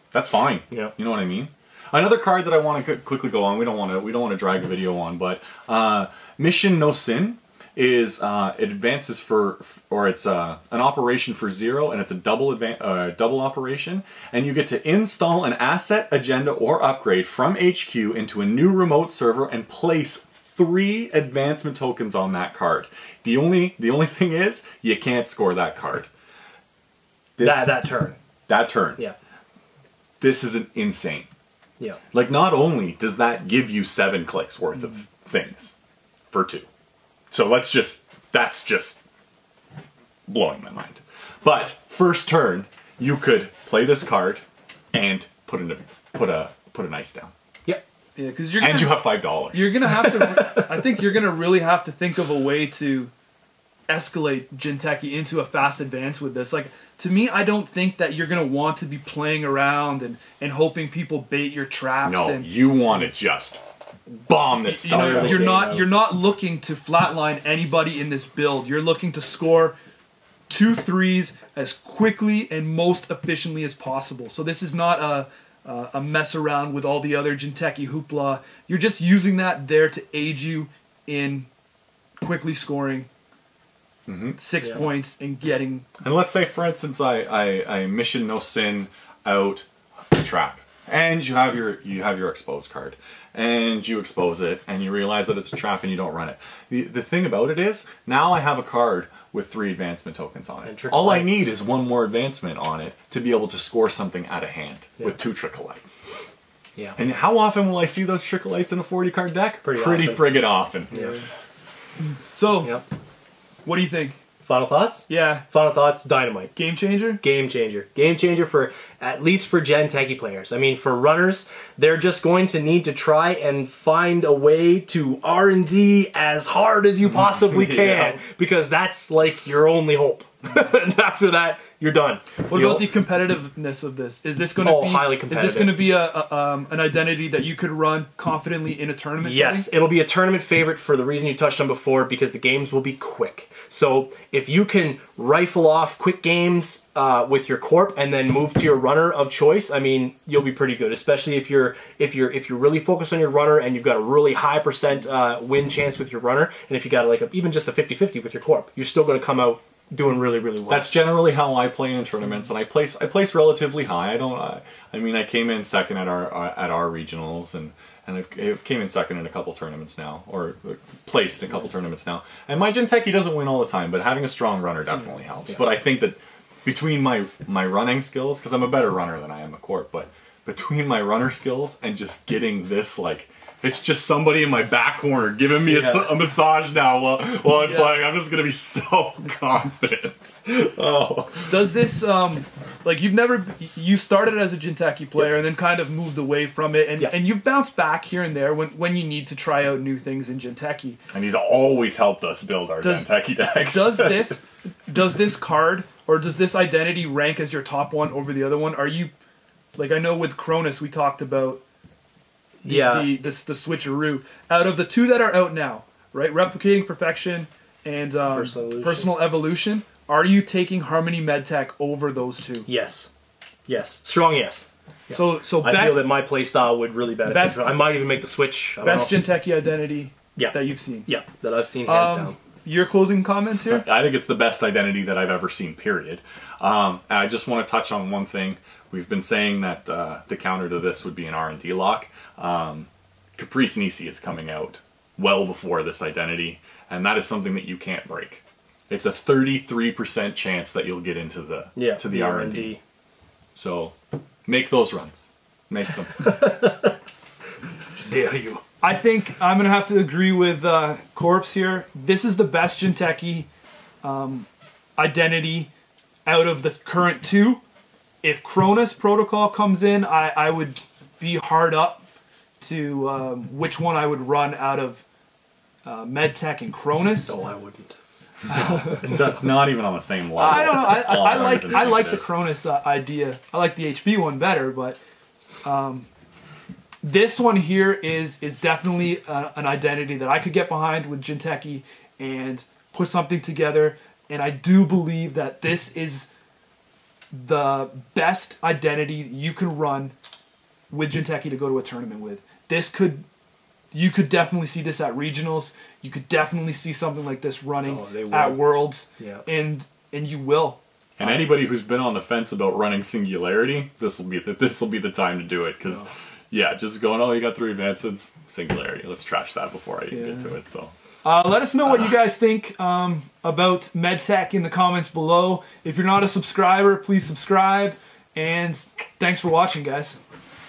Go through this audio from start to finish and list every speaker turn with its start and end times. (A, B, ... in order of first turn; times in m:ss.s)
0:00.1-0:26.1 A
0:27.4-0:27.9 A
0:27.4-0:28.2 B
0:28.5-0:29.0 A
0:30.2-0:31.3 A
0:32.1-0:35.8 A
0:36.3-0:36.7 A
0:37.3-0:39.0 A
0:40.3-0:47.3 A
0:48.2-0:53.1 C
0:48.6-0:49.8 A
0:53.9-1:02.4 C
1:02.0-1:05.8 A
1:04.7-1:09.8 C
1:04.9-1:05.9 B
1:10.5-1:21.5 C
1:22.2-1:23.1 C
1:24.1-1:24.4 A
1:24.4-1:25.9 C
1:26.0-1:46.0 A
1:40.6-1:41.5 B
1:47.0-1:51.0 A
1:49.6-1:50.4 B
1:50.9-1:51.2 C
1:52.3-1:52.8 C
1:53.6-1:54.2 C
1:54.5-1:56.5 B
1:55.1-1:55.5 C
1:56.6-1:57.2 C
1:57.2-2:12.9 B
2:07.3-2:08.0 A
2:07.8-2:08.1 C
2:12.5-2:19.7 C
2:14.6-2:15.8 B
2:19.2-2:40.9 B
2:40.7-3:11.6 A
3:05.7-3:06.1 B
3:07.6-3:08.0 C
3:11.5-3:21.0 C
3:21.1-3:24.4 A
3:22.8-3:29.1 C
3:29.8-3:31.6 C
3:32.6-3:33.1 B
3:32.6-3:42.7 C
3:38.3-3:39.1 B
3:42.7-3:43.1 B
3:43.7-3:49.2 B
3:45.1-3:46.2 C
3:47.3-3:47.8 C
3:48.8-3:51.1 C
3:50.4-3:52.4 B
3:51.9-3:53.9 C
3:53.6-4:12.8 A
4:11.8-4:12.8 B
4:13.6-4:16.6 A
4:16.4-4:16.8 B
4:18.1-4:18.6 B
4:18.6-4:23.5 C
4:24.0-4:25.7 C
4:26.3-4:27.6 C
4:28.2-4:32.0 C
4:32.6-4:35.0 C
4:35.8-4:37.3 C
4:37.3-4:38.0 B
4:38.5-4:39.1 C
4:38.8-4:42.3 A
4:40.4-4:45.0 C
4:45.6-4:46.1 C
4:47.0-4:56.3 C
4:57.3-5:00.1 C
5:00.9-5:03.2 C
5:03.9-5:10.8 C
5:07.9-5:08.6 B
5:09.2-5:09.4 B
5:11.2-5:20.9 A
5:20.1-5:20.5 C
5:21.2-5:30.2 C